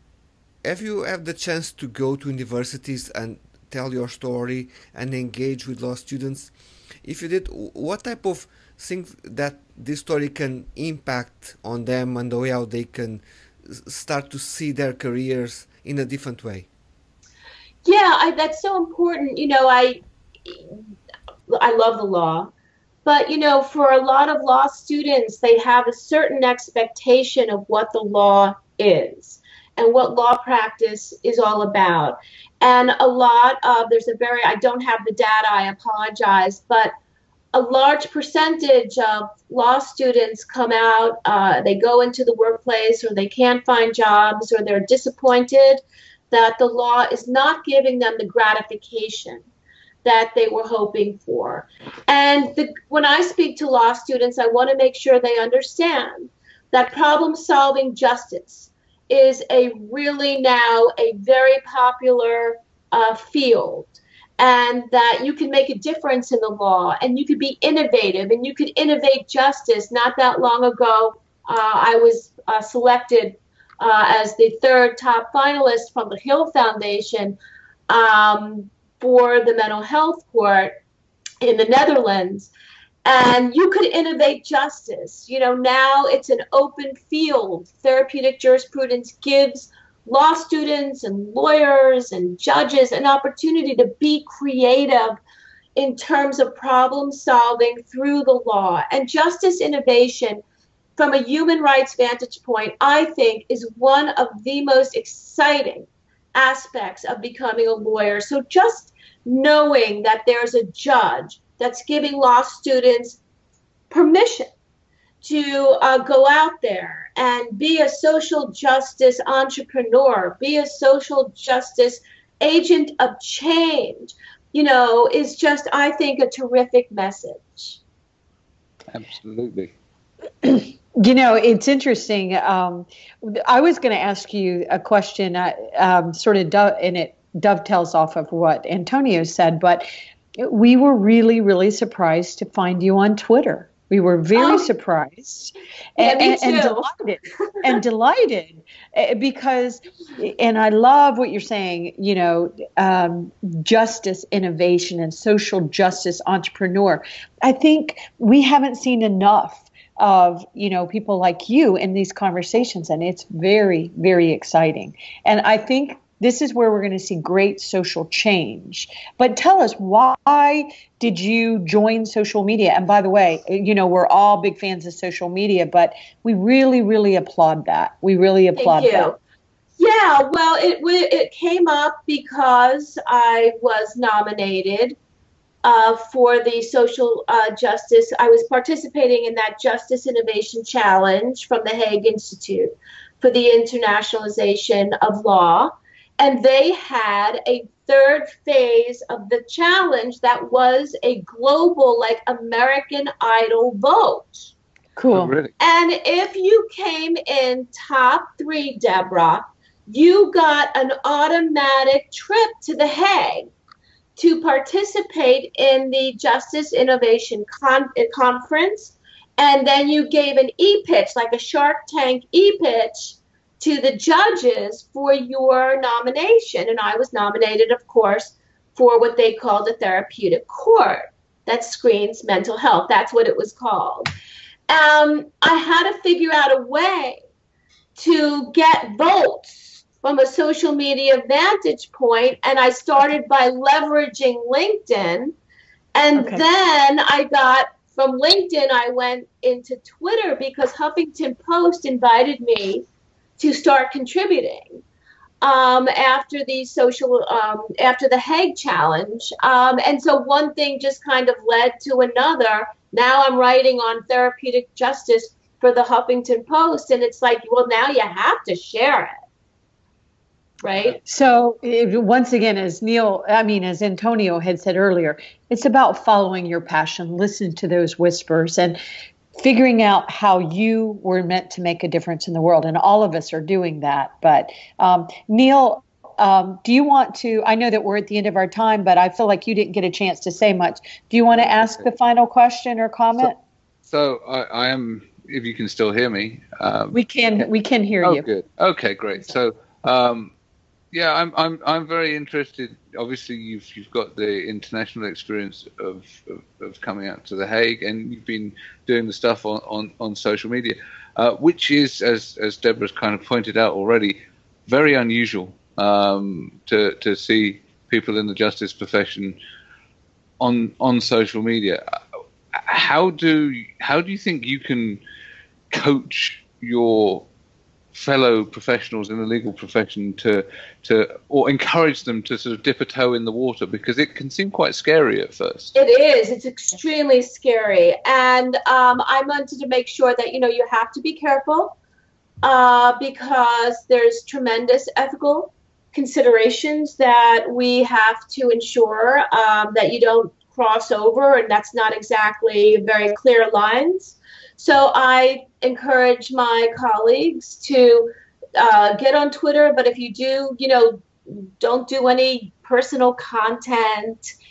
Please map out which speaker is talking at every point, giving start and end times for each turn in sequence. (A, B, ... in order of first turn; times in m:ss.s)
0:00.6-0:06.5 A
0:07.0-0:16.7 A
0:17.8-0:20.8 B
0:21.5-0:22.5 B
0:23.0-0:36.9 B
0:37.5-0:49.4 B
0:50.0-1:17.4 B
1:17.9-1:20.7 B
1:21.4-1:22.5 B
1:23.0-1:35.2 B
1:35.8-1:40.4 B
1:41.0-1:53.2 B
1:53.9-1:54.5 B
1:55.2-2:07.8 B
2:08.9-2:09.7 C
2:10.4-2:19.9 D
2:20.4-2:59.1 D
2:24.4-2:24.7 B
2:26.0-2:26.9 B
2:58.6-2:59.2 B
2:59.8-3:05.0 B
3:05.6-3:24.5 B
3:25.0-3:25.3 D
3:25.1-3:25.5 C
3:25.6-3:33.5 B
3:34.2-3:54.1 B
3:54.7-3:57.2 B
3:58.0-4:05.4 B
4:06.0-4:12.8 B
4:06.2-4:06.4 D
4:13.4-4:14.8 B
4:15.4-4:29.2 B
4:30.6-4:31.0 B
4:31.1-4:38.8 D
4:39.4-4:53.4 D
4:53.9-4:57.0 C
4:56.9-4:58.2 D
4:58.0-5:00.3 C
5:00.9-5:19.4 C
5:20.4-5:21.8 C
5:22.5-5:25.0 C
5:25.7-5:27.2 C
5:27.9-5:35.8 C
5:35.8-5:41.8 B
5:42.4-6:04.3 B